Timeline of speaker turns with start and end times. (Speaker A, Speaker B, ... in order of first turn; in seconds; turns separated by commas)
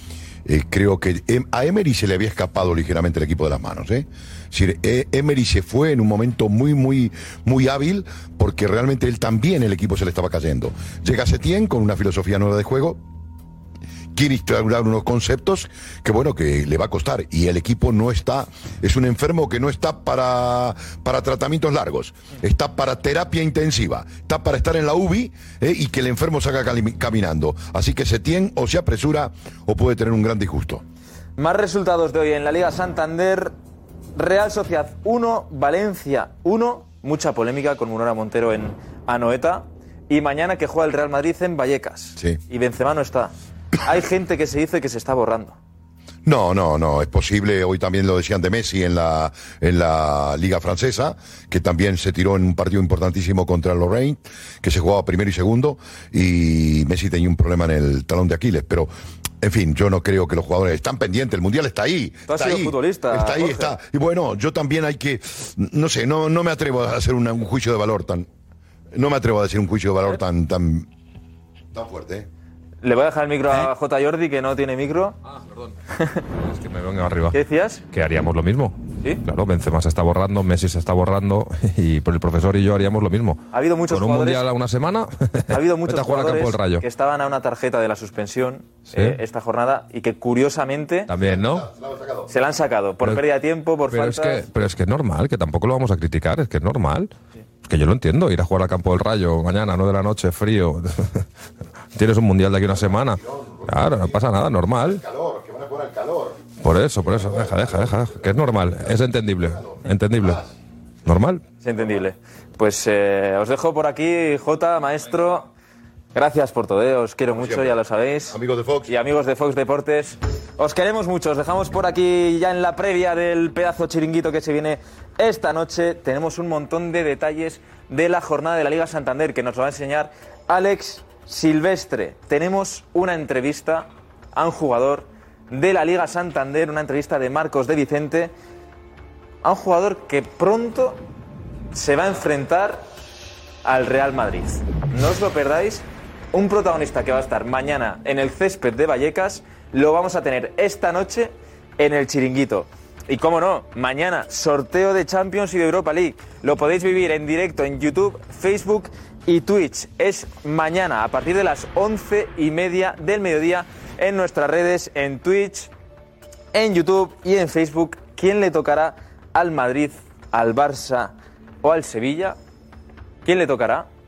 Speaker A: 0.5-13.0, Speaker A: 14.1-30.8, Speaker B: 31.4-33.5, Speaker B: 34.1-45.6, Speaker A: 46.2-68.3, Speaker B: 62.3-63.8, Speaker A: 68.9-70.9, Speaker A: 71.7-72.3, Speaker B: 72.8-75.2, Speaker C: 76.4-77.4, Speaker B: 77.3-77.8, Speaker C: 77.9-86.8, Speaker B: 83.5-84.5, Speaker B: 85.5-91.1, Speaker C: 88.9-89.2, Speaker C: 91.1-91.7, Speaker A: 91.2-92.3, Speaker B: 92.3-94.5, Speaker C: 93.9-97.1, Speaker C: 97.7-101.2, Speaker C: 102.0-105.0, Speaker A: 102.9-104.2, Speaker A: 104.8-106.5, Speaker C: 106.6-110.4, Speaker A: 107.1-108.1, Speaker A: 109.4-110.4, Speaker C: 111.1-111.4, Speaker B: 111.6-115.5, Speaker B: 116.2-138.3, Speaker A: 117.3-117.8, Speaker A: 118.3-118.9, Speaker B: 139.4-141.0, Speaker B: 141.7-142.9, Speaker B: 143.7-165.7, Speaker B: 166.5-172.4, Speaker B: 173.2-173.9